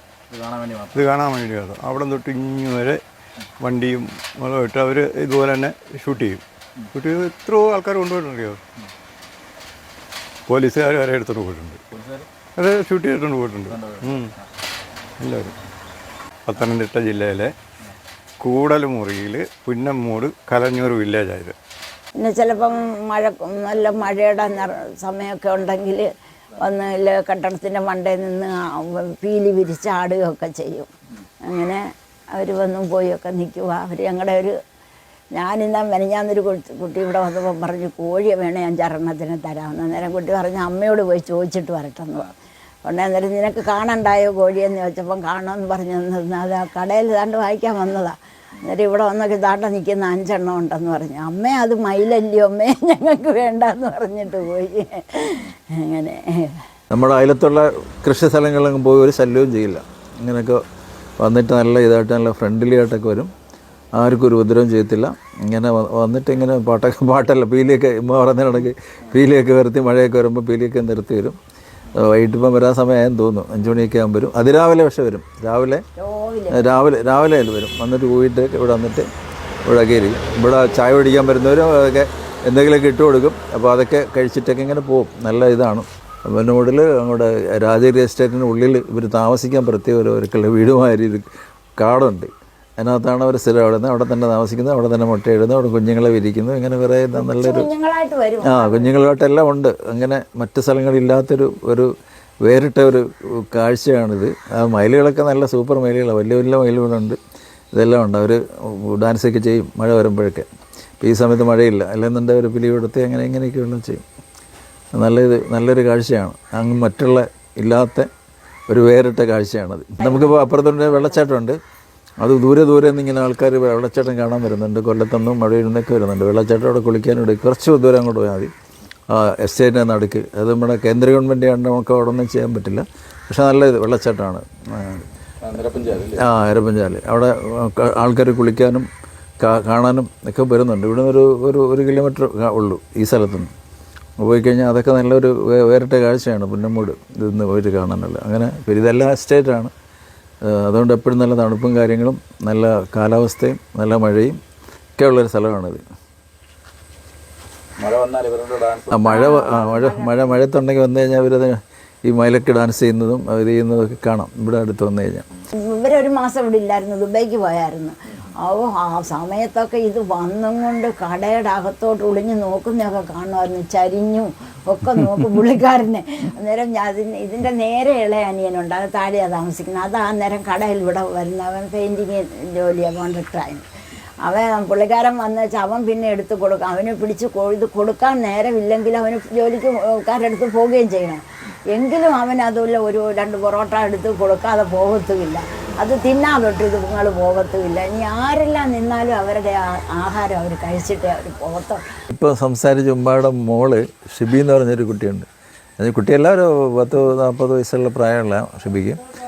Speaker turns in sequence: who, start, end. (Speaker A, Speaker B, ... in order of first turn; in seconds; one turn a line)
Speaker A: 0.3-1.1
Speaker B: 0.9-3.0
Speaker B: 3.6-6.4
Speaker B: 6.9-8.6
Speaker B: 10.5-11.8
Speaker A: 11.9-12.3
Speaker B: 12.6-14.3
Speaker A: 13.7-14.3
Speaker B: 15.2-15.5
Speaker B: 16.5-17.5
Speaker B: 18.4-21.6
Speaker C: 22.2-26.1
Speaker C: 26.6-30.9
Speaker C: 31.4-34.5
Speaker C: 35.3-42.3
Speaker C: 42.9-56.6
Speaker D: 56.9-60.6
Speaker D: 61.2-63.3
Speaker D: 64.0-71.4
Speaker D: 72.0-75.8
Speaker C: 76.0-76.7
Speaker D: 76.5-79.0
Speaker D: 79.7-91.2
Speaker D: 91.8-97.7
Speaker C: 97.2-98.9
Speaker D: 98.5-101.9
Speaker D: 102.4-107.2
Speaker D: 107.8-110.5
Speaker D: 111.0-114.0
Speaker D: 115.0-118.1
Speaker D: 118.7-121.6
Speaker C: 120.0-120.3
Speaker D: 122.2-128.5
Speaker D: 129.1-135.1
Speaker A: 135.4-136.2
Speaker D: 136.2-138.9
Speaker D: 139.4-143.5
Speaker D: 144.2-149.7
Speaker D: 150.4-154.4
Speaker D: 155.0-155.8
Speaker A: 157.8-159.0
Speaker D: 158.9-165.2
Speaker C: 159.1-160.3
Speaker C: 165.6-183.7
Speaker C: 184.2-201.8
Speaker D: 202.1-205.3
Speaker D: 205.8-209.0